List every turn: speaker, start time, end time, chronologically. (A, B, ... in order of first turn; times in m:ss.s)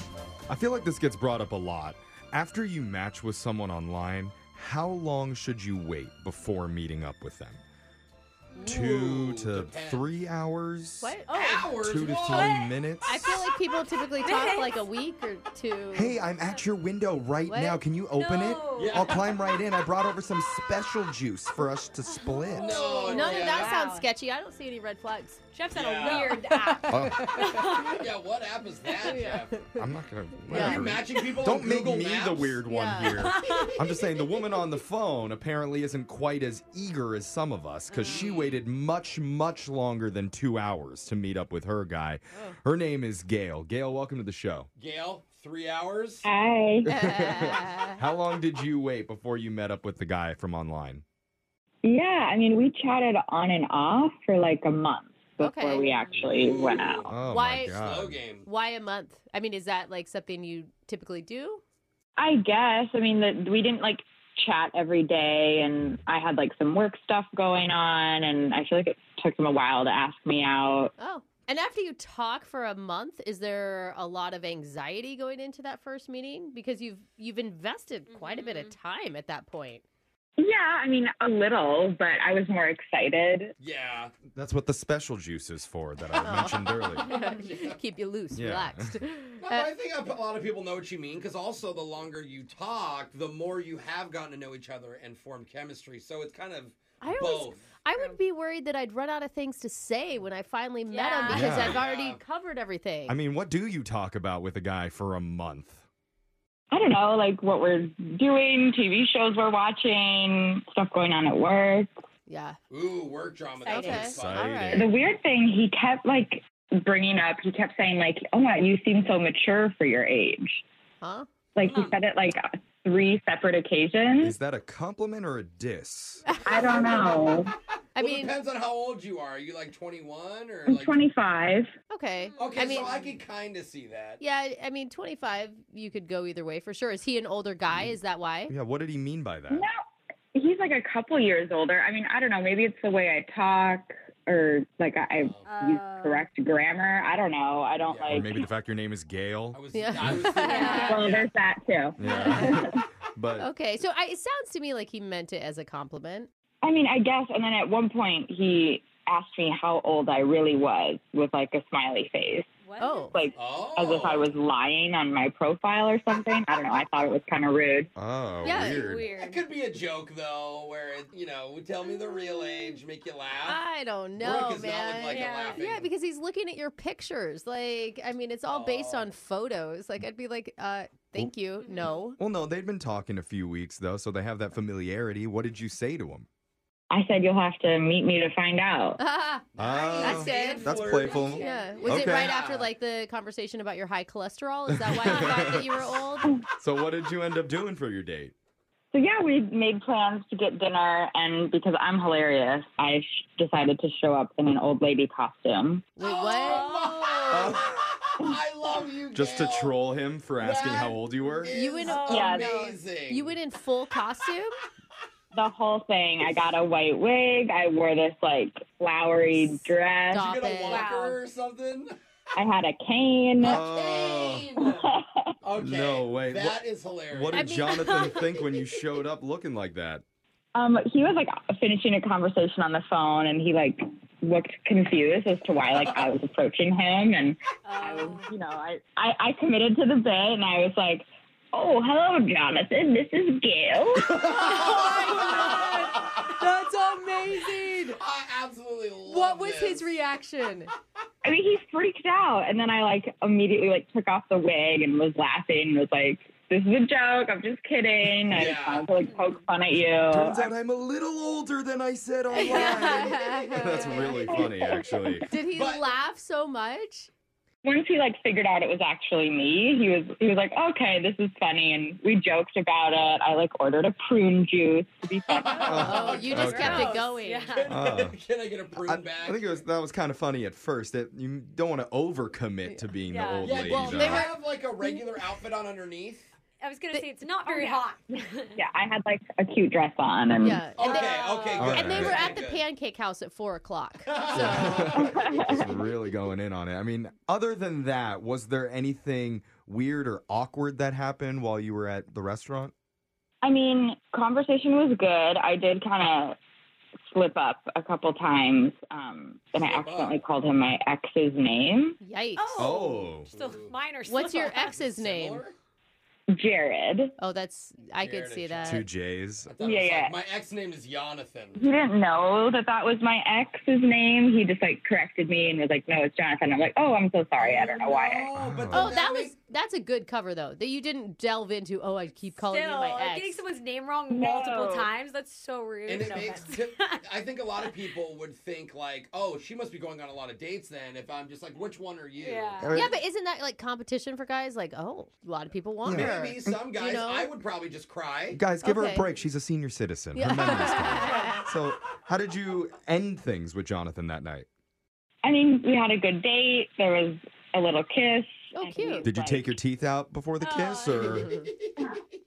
0:00.5-0:07.6 A
0:08.6-0:10.1 B
0:08.6-0:13.4 A
0:11.0-0:11.3 C
0:11.3-0:11.6 D
0:11.3-0:12.7 B
0:12.2-0:12.6 D
0:13.0-0:16.2 C
0:14.2-0:14.8 D
0:15.9-0:22.8 A
0:17.5-0:17.8 C
0:18.2-0:19.2 D
0:18.7-0:19.4 B
0:22.2-0:25.4 C
0:22.5-0:23.7 B
0:22.5-0:24.1 D
0:25.5-0:28.0 D
0:25.7-0:26.5 B
0:26.0-0:27.1 C
0:26.9-0:27.4 A
0:27.2-0:29.6 B
0:29.0-0:29.9 C
0:29.7-0:44.7 A
0:30.5-0:30.9 C
0:30.5-0:33.6 B
0:32.7-0:33.3 C
0:38.0-0:38.6 B
0:44.8-0:46.3 B
0:46.2-0:46.9 E
0:46.8-0:51.0 A
0:46.9-0:48.0 C
0:51.8-0:57.1 E
0:55.4-0:55.9 C
0:55.8-0:58.5 B
0:57.1-0:58.2 A
0:57.2-0:57.8 C
0:58.4-1:01.6 C
1:02.2-1:10.9 E
1:11.0-1:19.8 C
1:18.1-1:18.7 D
1:20.4-1:23.5 E
1:23.6-1:24.1 B
1:24.3-1:27.0 A
1:26.2-1:29.7 C
1:27.4-1:27.7 B
1:28.3-1:29.0 A
1:29.4-1:37.6 B
1:37.0-1:43.2 C
1:40.9-1:41.6 D
1:41.3-1:41.8 A
1:41.5-1:42.2 B
1:43.1-1:45.8 A
1:46.7-1:51.9 E
1:52.3-1:52.6 C
1:52.7-1:54.5 B
1:53.6-1:54.9 C
1:53.9-1:54.9 A
1:54.7-2:00.6 E
2:01.0-2:01.2 C
2:01.5-2:04.4 E
2:01.7-2:02.0 B
2:04.2-2:06.2 A
2:06.3-2:07.2 C
2:06.4-2:07.5 E
2:06.5-2:07.4 B
2:08.0-2:08.3 C
2:08.0-2:11.1 B
2:10.7-2:11.7 E
2:11.9-2:13.0 C
2:12.4-2:12.6 D
2:12.4-2:14.2 B
2:14.2-2:18.5 C
2:17.7-2:19.6 A
2:20.3-2:28.5 E
2:25.1-2:25.6 B
2:25.4-2:26.3 D
2:27.8-2:28.3 B
2:28.1-2:30.3 A
2:29.5-2:31.3 B
2:29.7-2:31.1 C
2:30.4-2:31.1 D
2:30.8-2:32.0 E
2:32.0-2:33.5 A
2:32.0-2:32.6 C
2:33.4-2:36.3 C
2:36.6-2:42.4 E
2:42.6-2:43.3 D
2:42.8-2:43.2 C
2:43.1-2:47.9 E
2:43.3-2:44.4 B
2:48.0-2:49.1 A
2:48.4-2:48.8 C
2:48.6-2:53.6 B
2:48.7-2:49.4 D
2:53.4-3:02.2 C
2:54.2-2:55.9 B
2:55.1-2:55.6 D
2:58.5-2:59.1 B
3:01.6-3:01.9 D
3:02.2-3:06.3 A
3:06.9-3:09.0 E
3:09.0-3:09.4 C
3:09.6-3:12.7 B
3:09.6-3:12.2 A
3:10.0-3:16.4 C
3:14.8-3:15.8 A
3:16.6-3:18.3 A
3:18.9-3:25.9 E
3:26.0-3:26.7 C
3:26.0-3:29.7 B
3:26.5-3:27.1 D
3:27.3-3:27.7 A
3:29.1-3:31.5 A
3:30.4-3:33.3 B
3:31.5-3:34.6 C
3:31.8-3:32.5 D
3:32.1-3:32.4 E
3:35.3-3:40.2 E
3:40.1-3:40.9 C
3:40.1-3:41.9 B
3:40.7-3:41.2 D
3:42.4-3:43.6 E
3:43.4-3:44.5 A
3:43.4-3:47.7 B
3:44.6-3:45.3 E
3:45.6-3:50.0 A
3:47.3-3:47.8 C
3:47.8-3:48.4 D
3:50.5-4:04.4 E
3:55.6-3:56.0 B
3:57.6-3:58.3 D
4:04.0-4:06.3 B
4:04.5-4:04.9 D
4:04.7-4:08.0 C
4:07.8-4:09.9 B
4:09.1-4:10.7 C
4:11.2-4:20.5 E
4:18.2-4:19.0 B
4:19.0-4:19.4 D
4:20.1-4:25.2 A
4:22.3-4:24.4 C
4:22.4-4:23.2 D
4:23.9-4:25.2 E
4:25.3-4:27.1 C
4:25.4-4:25.9 B
4:27.6-4:35.6 E
4:35.2-4:39.6 B
4:35.5-4:37.7 D
4:35.6-4:36.9 A
4:35.7-4:37.6 C
4:37.6-4:38.2 A
4:38.8-4:44.3 A
4:43.1-4:43.6 D
4:43.4-4:45.3 C
4:43.4-4:46.3 B
4:46.6-4:48.6 D
4:47.4-4:47.9 E
4:48.6-4:50.7 E
4:50.4-4:55.1 C
4:50.7-4:52.6 B
4:51.6-4:52.2 A
4:54.1-4:55.1 B
4:54.3-5:02.7 A
4:54.9-4:55.7 E
5:03.4-5:06.4 E
5:07.1-5:12.0 E
5:09.6-5:10.2 B
5:12.0-5:12.7 C
5:12.4-5:14.8 D
5:12.5-5:13.3 A
5:13.3-5:13.8 B
5:14.1-5:15.4 C
5:14.4-5:15.5 B
5:16.3-5:17.1 E
5:17.2-5:18.9 C
5:17.9-5:18.8 B
5:18.6-5:19.5 A
5:19.5-5:21.7 B
5:19.6-5:20.2 E
5:21.6-5:28.3 E
5:27.4-5:29.3 B
5:28.3-5:28.9 A
5:28.7-5:33.4 C
5:32.4-5:37.0 D
5:34.1-5:34.9 E
5:35.8-5:42.7 B
5:42.2-5:42.7 D
5:42.6-5:42.9 A
5:42.7-5:47.3 C
5:45.8-5:46.6 A
5:45.8-5:48.4 B
5:48.3-5:54.5 A
5:48.6-5:49.1 C
5:50.1-5:51.4 C
5:55.2-5:59.5 E
5:58.5-5:59.1 C
5:59.0-6:01.3 A
6:00.4-6:01.0 D
6:00.9-6:01.9 B
6:01.1-6:01.5 C